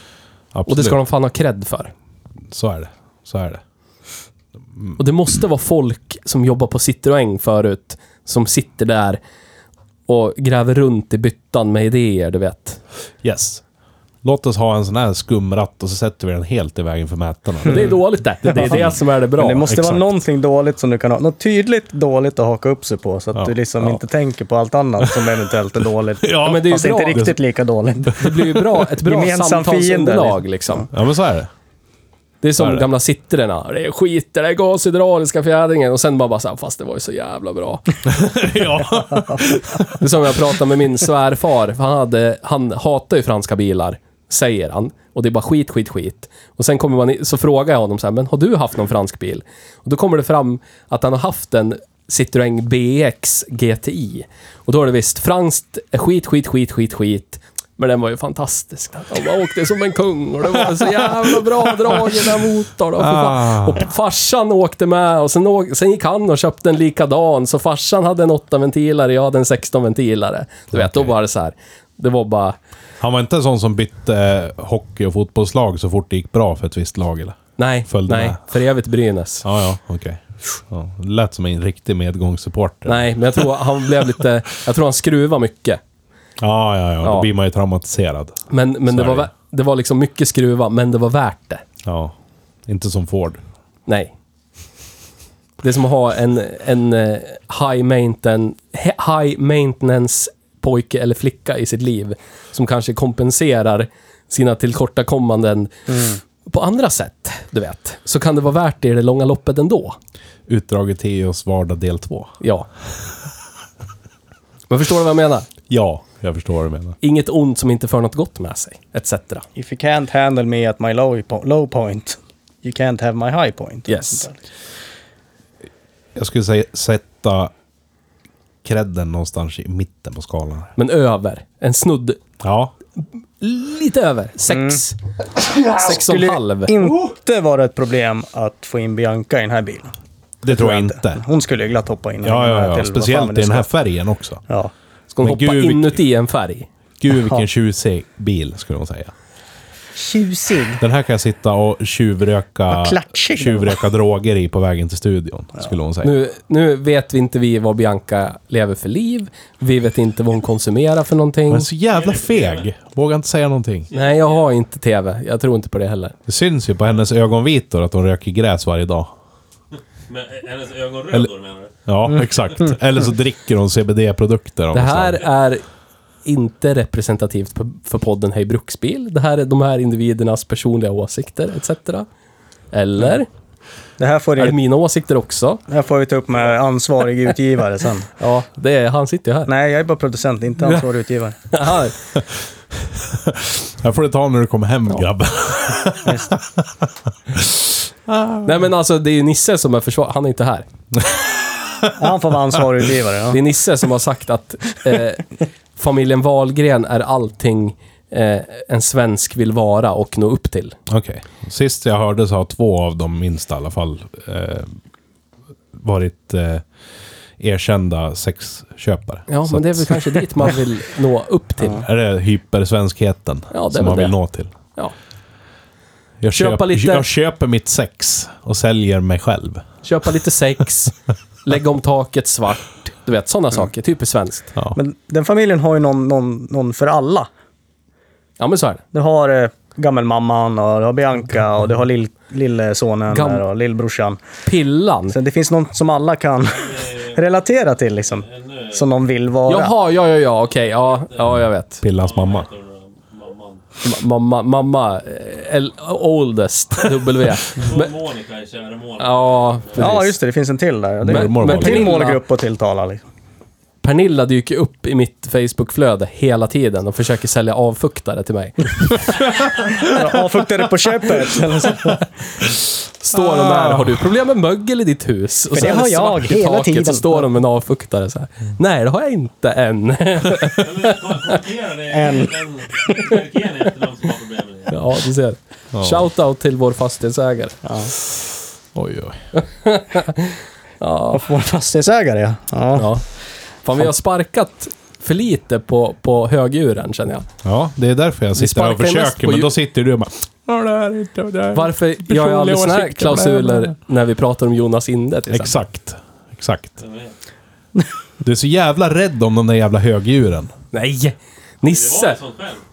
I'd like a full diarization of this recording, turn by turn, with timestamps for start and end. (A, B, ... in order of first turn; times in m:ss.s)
0:00.5-0:01.0 A
0:00.7-0:01.9 B
0:02.5-0:03.6 A
0:04.7-0:05.0 A
0:05.0-0:09.2 B
0:10.1-0:12.8 B
0:13.2-0:13.6 A
0:14.2-0:19.0 A
0:17.7-0:19.7 B
0:19.4-0:28.2 C
0:19.6-0:20.2 A
0:23.3-0:24.0 A
0:25.0-0:27.4 A
0:26.4-0:27.2 B
0:28.0-0:28.6 A
0:28.2-0:30.9 B
0:29.0-0:30.4 C
0:30.9-0:31.5 A
0:32.4-0:37.8 B
0:32.6-0:32.9 A
0:38.0-0:40.0 A
0:40.0-1:12.6 B
1:03.0-1:03.8 A
1:10.7-1:11.1 A
1:13.0-1:18.4 A
1:17.6-1:19.4 B
1:19.4-1:23.5 A
1:22.8-1:25.8 B
1:26.4-1:29.3 A
1:27.0-1:27.3 B
1:28.5-1:31.6 B
1:31.8-1:32.1 A
1:32.7-1:33.4 A
1:33.9-1:34.1 B
1:35.6-1:50.0 B
1:50.5-1:52.3 A
1:52.4-1:52.7 B
1:54.7-1:55.5 B
1:55.7-1:57.0 A
1:57.0-1:59.4 B
1:59.6-2:04.4 C
2:03.9-2:04.3 B
2:06.1-2:07.5 A
2:08.6-2:10.7 A
2:10.8-2:12.2 B
2:12.4-2:12.7 A
2:13.4-2:15.0 B
2:14.5-2:14.8 C
2:15.4-2:19.9 C
2:15.8-2:16.7 B
2:20.4-2:21.2 A
2:20.4-2:23.7 C
2:22.2-2:24.4 A
2:25.2-2:26.7 B
2:25.2-2:26.0 A
2:27.0-2:29.1 A
2:30.0-2:30.8 C
2:30.8-2:36.1 A
2:32.7-2:33.8 C
2:36.0-2:41.7 B
2:41.5-2:43.9 A
2:41.9-2:42.7 D
2:43.9-2:44.5 D
2:43.9-2:46.1 B
2:46.3-2:49.1 A
2:50.1-2:51.8 D
2:51.8-2:55.2 A
2:54.7-2:55.6 B
2:56.2-3:02.1 B
3:02.7-3:03.3 B
3:04.0-3:04.6 C
3:04.4-3:05.6 B
3:05.7-3:08.1 C
3:08.2-3:09.5 B
3:09.5-3:11.4 C
3:11.5-3:11.9 B
3:12.1-3:18.6 A
3:16.0-3:16.3 C
3:18.4-3:20.6 B
3:21.0-3:22.0 A
3:21.9-3:23.4 C
3:23.3-3:30.8 B
3:30.9-3:34.8 A
3:35.7-3:36.6 A
3:37.4-3:40.6 A
3:39.3-3:41.8 B
3:41.8-3:44.5 A
3:43.5-3:44.9 B
3:46.2-3:49.6 A
3:46.3-3:47.1 B
3:49.8-3:54.5 B
3:54.7-3:57.3 C
3:58.4-3:58.8 B
3:58.9-4:04.2 C
4:03.1-4:03.4 B
4:04.4-4:05.2 B
4:05.1-4:09.7 C
4:06.5-4:07.2 D
4:08.0-4:08.9 D
4:09.5-4:11.8 B
4:10.9-4:11.3 D
4:11.8-4:12.5 A
4:12.0-4:13.6 D
4:13.8-4:17.9 B
4:17.5-4:20.0 D
4:19.0-4:20.1 B
4:19.8-4:23.0 C
4:21.0-4:22.0 A
4:21.1-4:22.2 B
4:23.8-4:29.1 B
4:29.7-4:32.0 C
4:33.0-4:41.3 B
4:33.1-4:34.0 A
4:35.5-4:37.3 C
4:40.6-4:44.8 D
4:41.9-4:43.0 C
4:44.7-4:47.6 B
4:45.7-4:46.1 A
4:47.6-4:47.9 C
4:48.7-4:49.2 A
4:49.4-4:51.2 B
4:51.1-4:52.9 C
4:52.8-4:53.0 B
4:53.6-4:57.3 B
4:57.4-5:03.7 A
4:58.4-4:59.5 B
5:01.5-5:05.5 B
5:05.3-5:06.7 A
5:06.8-5:07.1 D
5:08.2-5:10.5 A
5:10.7-5:12.2 B
5:11.6-5:12.6 D